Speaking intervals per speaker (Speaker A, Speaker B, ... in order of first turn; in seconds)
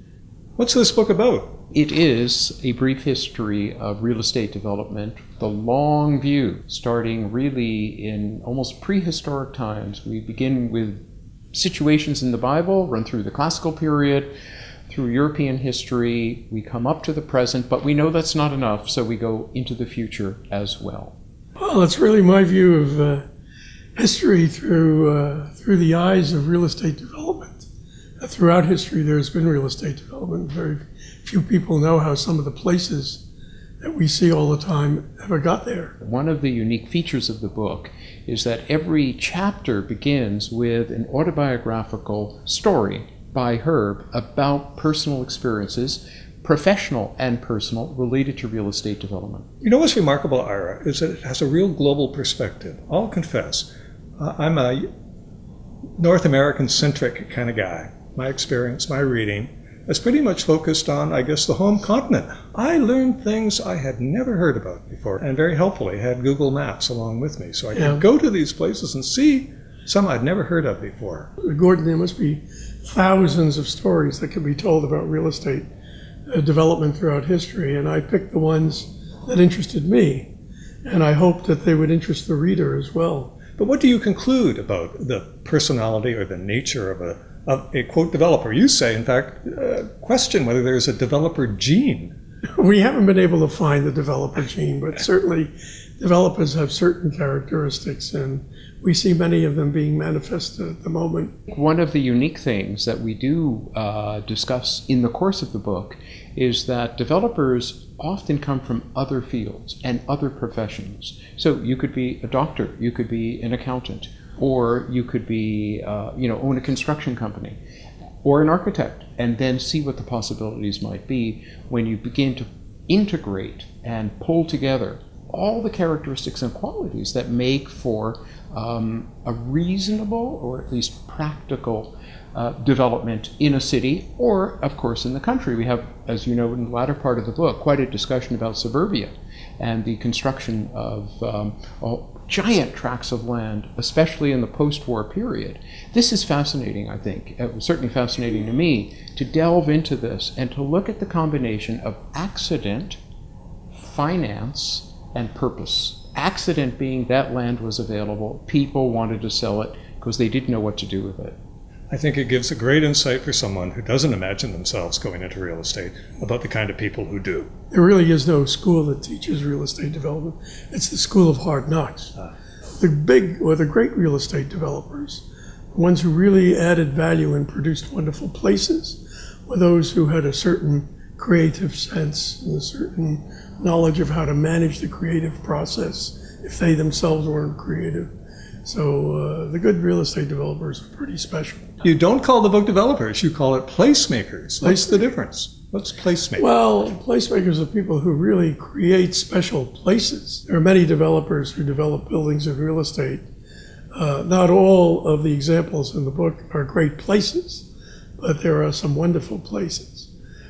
Speaker A: 0.6-1.6, 49.6-54.9, 56.0-71.3, 83.6-92.1, 161.9-167.5, 191.8-196.4
Speaker B: 1.7-14.3, 14.9-21.1, 36.0-49.5, 101.5-117.6, 118.2-153.0, 153.7-161.4
Speaker C: 21.6-23.2, 23.9-27.7, 28.2-33.2, 33.8-35.9, 67.7-68.0, 71.4-75.7, 76.3-80.3, 80.8-83.4, 92.6-101.3, 167.7-172.1, 172.8-188.1, 188.6-191.8, 194.6-195.1, 196.4-203.2, 203.9-207.7, 208.2-210.1